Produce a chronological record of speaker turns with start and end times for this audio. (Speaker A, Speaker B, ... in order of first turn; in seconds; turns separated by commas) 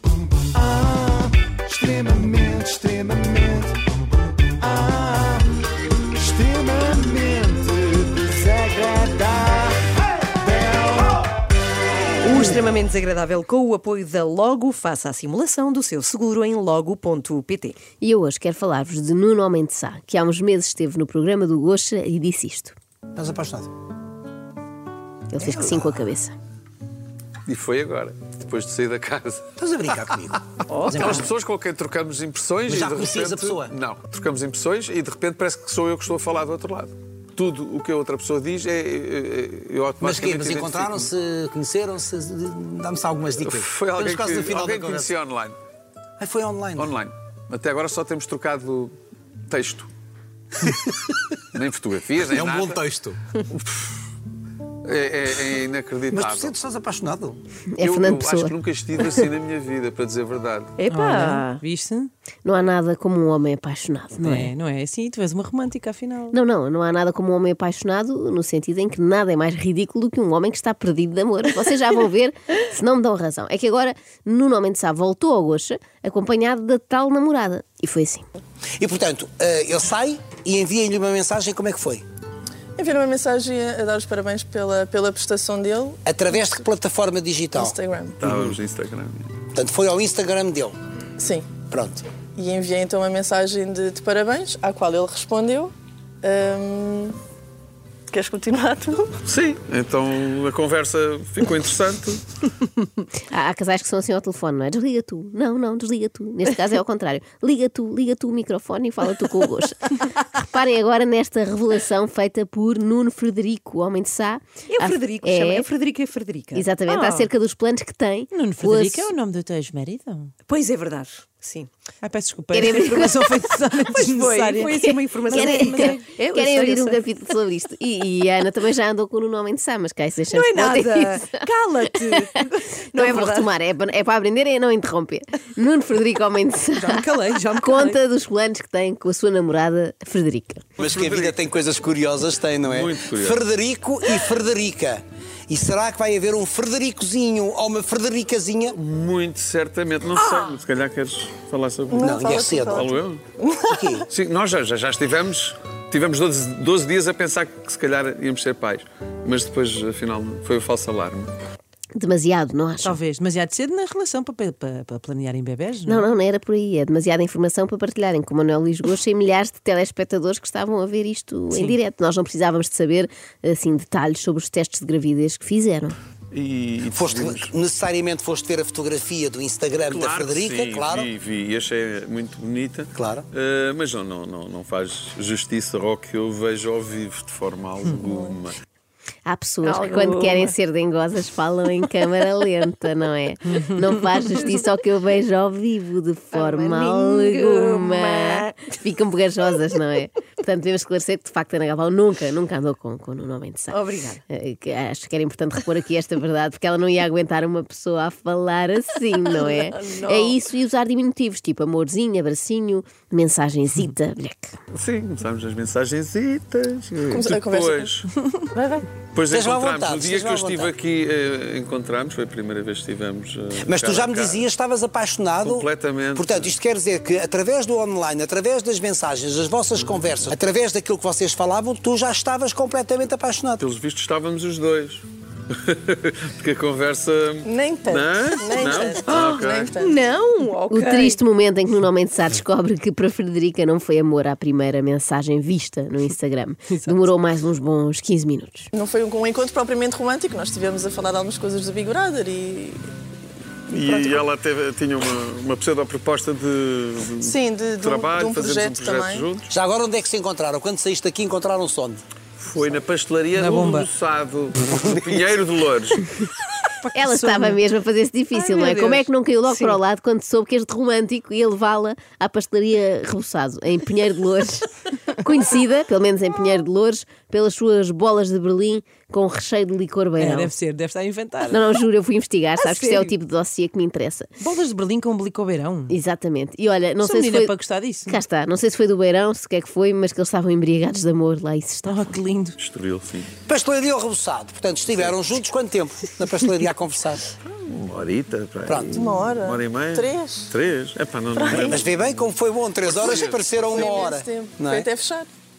Speaker A: 0.5-3.8, Speaker A: 4.6-5.5, Speaker A: 6.2-9.8, Speaker A: 10.4-11.1, Speaker B: 12.2-17.8, Speaker C: 18.0-22.8, Speaker D: 23.1-23.7, Speaker C: 25.3-26.3, Speaker D: 25.4-25.9, Speaker E: 27.5-29.5, Speaker D: 29.6-31.3, Speaker E: 30.9-41.1, Speaker D: 32.7-33.7, Speaker D: 40.0-45.1, Speaker E: 43.4-45.6, Speaker D: 46.2-46.9, Speaker E: 46.8-48.9, Speaker E: 49.5-49.9, Speaker D: 50.6-50.9, Speaker E: 51.5-52.8, Speaker D: 52.3-53.2, Speaker E: 53.5-54.0, Speaker E: 54.8-56.5, Speaker D: 56.1-57.4, Speaker C: 57.7-59.2, Speaker E: 57.8-60.7, Speaker B: 60.8-61.5, Speaker A: 60.9-61.9, Speaker F: 60.9-62.1, Speaker C: 62.5-64.5, Speaker F: 64.2-66.3, Speaker C: 66.3-78.2, Speaker D: 78.8-82.0, Speaker G: 82.8-86.4, Speaker D: 86.0-88.5, Speaker G: 87.5-88.2, Speaker E: 88.2-89.3, Speaker D: 89.5-90.8, Speaker G: 91.2-91.5, Speaker D: 91.7-92.0, Speaker G: 92.4-97.2, Speaker G: 98.1-99.1, Speaker E: 99.3-102.2, Speaker C: 103.3-115.7, Speaker B: 114.7-116.7, Speaker C: 116.5-119.1, Speaker A: 116.9-117.2, Speaker F: 118.4-120.3, Speaker B: 120.4-121.7, Speaker A: 122.0-124.7, Speaker F: 122.1-125.9, Speaker C: 122.5-123.4, Speaker B: 123.9-127.0, Speaker C: 124.7-140.6, Speaker A: 125.4-126.0, Speaker B: 130.3-133.5, Speaker A: 131.9-132.4, Speaker B: 136.8-137.9, Speaker A: 136.9-137.4, Speaker E: 140.8-141.4, Speaker D: 140.8-148.8, Speaker E: 142.6-143.4, Speaker E: 148.7-153.2, Speaker G: 151.9-153.9, Speaker D: 152.0-152.9, Speaker D: 153.7-154.1, Speaker E: 154.1-161.3, Speaker C: 161.9-163.0, Speaker F: 162.8-165.8, Speaker C: 165.9-175.9, Speaker E: 176.3-177.5, Speaker D: 176.9-181.1, Speaker E: 179.9-188.5, Speaker D: 182.9-183.3, Speaker G: 188.0-188.4, Speaker C: 189.3-203.8, Speaker A: 189.7-190.1, Speaker B: 189.9-190.5, Speaker B: 196.3-198.5, Speaker B: 203.7-204.2, Speaker C: 204.3-214.5, Speaker G: 209.5-209.9, Speaker B: 209.9-210.4, Speaker E: 214.7-218.1, Speaker G: 217.1-218.0, Speaker G: 218.5-218.8, Speaker E: 219.1-224.5, Speaker D: 219.3-220.7, Speaker D: 223.6-233.7, Speaker E: 225.4-226.5, Speaker E: 233.6-239.7, Speaker G: 237.4-240.1, Speaker B: 239.1-241.2, Speaker C: 240.7-248.7, Speaker G: 248.7-252.8, Speaker E: 253.7-259.5, Speaker G: 253.7-254.2, Speaker G: 257.2-259.3, Speaker D: 259.5-262.0, Speaker E: 262.4-266.1, Speaker F: 263.4-263.9, Speaker C: 266.9-280.5, Speaker F: 267.1-267.5, Speaker A: 268.3-269.8, Speaker F: 280.2-281.6, Speaker C: 281.5-284.3, Speaker A: 282.6-283.1, Speaker F: 284.4-285.9, Speaker C: 285.9-287.5, Speaker F: 287.1-288.0, Speaker A: 287.2-287.5, Speaker C: 288.1-292.2, Speaker F: 291.9-292.4, Speaker E: 292.6-293.3, Speaker D: 293.5-297.2, Speaker E: 297.5-301.8, Speaker D: 298.7-299.0, Speaker G: 299.0-300.5, Speaker G: 301.3-301.8, Speaker D: 301.5-304.9, Speaker E: 302.9-304.0, Speaker G: 303.7-305.3